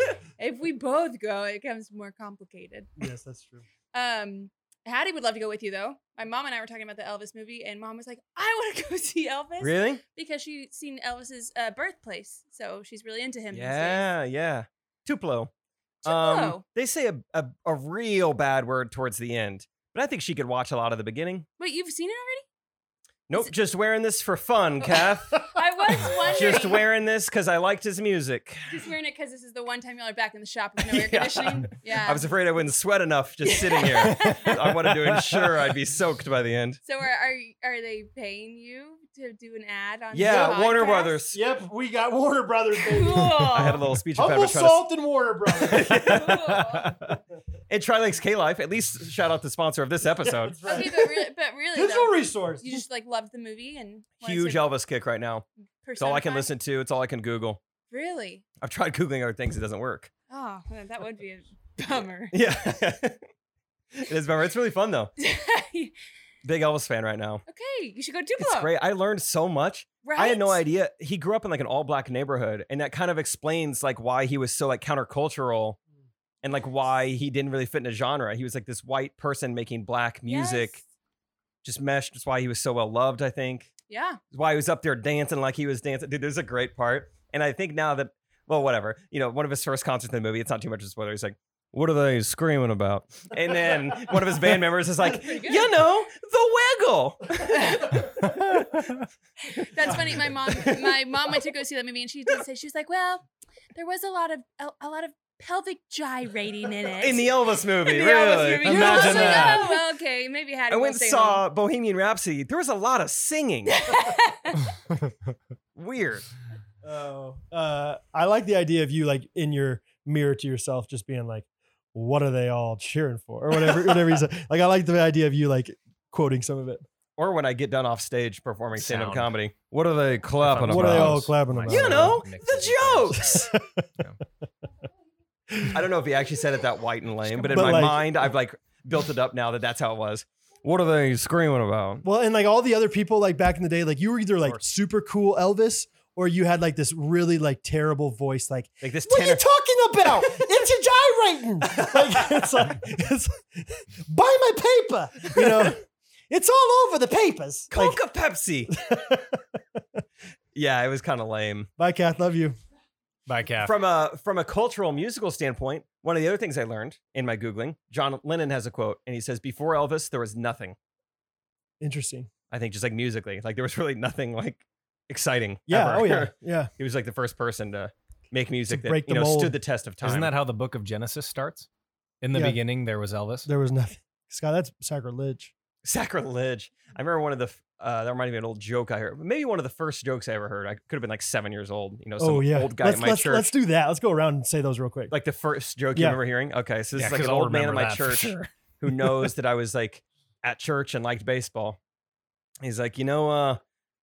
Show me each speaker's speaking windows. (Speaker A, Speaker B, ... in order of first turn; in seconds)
Speaker A: 0.4-2.9, 3.9-14.1, 16.0-16.6, 21.6-22.4, 24.8-26.9, 28.7-32.3, 33.4-34.6, 36.9-41.2, 42.8-43.8, 45.9-47.1, 50.6-54.7, 55.8-56.5, 57.9-58.4, 60.3-62.4, 65.2-65.9, 67.5-68.7, 70.0-70.6, 80.2-80.8, 83.9-84.2, 95.0-95.7, 97.4-98.3, 99.6-111.4, 113.7-114.7
Speaker B: 3.0-3.6, 40.2-40.6, 41.3-43.5, 44.1-46.0, 50.2-52.8, 116.8-126.8, 130.7-132.2, 133.2-133.8, 135.5-135.8, 137.5-138.1, 142.0-158.0, 158.7-159.4, 161.8-162.6, 171.8-172.3, 175.7-176.7, 178.7-179.6, 182.3-182.6, 183.4-185.5, 192.2-195.1
Speaker C: 9.6-10.0, 13.5-15.5, 16.0-21.4, 23.3-25.5, 26.2-28.9, 30.9-36.8, 40.1-41.4, 43.5-44.9, 45.5-46.5, 47.7-50.6, 54.2-55.4, 56.0-57.6, 58.6-60.1, 62.3-63.2, 63.9-65.1, 66.4-67.4, 68.4-75.8, 76.4-80.8, 81.6-83.7, 84.3-98.8, 99.6-101.1, 107.0-109.7, 110.7-113.8, 115.7-116.2, 127.2-133.5, 135.7-142.0, 148.8-149.4, 151.7-152.3, 157.7-158.7, 160.5-161.7, 163.6-170.8, 172.5-180.3, 185.8-193.5, 195.1-201.8, 202.6-203.6
Speaker D: 35.1-35.4, 46.5-47.1, 108.6-109.7, 128.8-129.3, 130.4-134.2, 137.2-138.1, 163.3-163.8, 180.0-181.7, 182.2-183.5, 196.9-198.5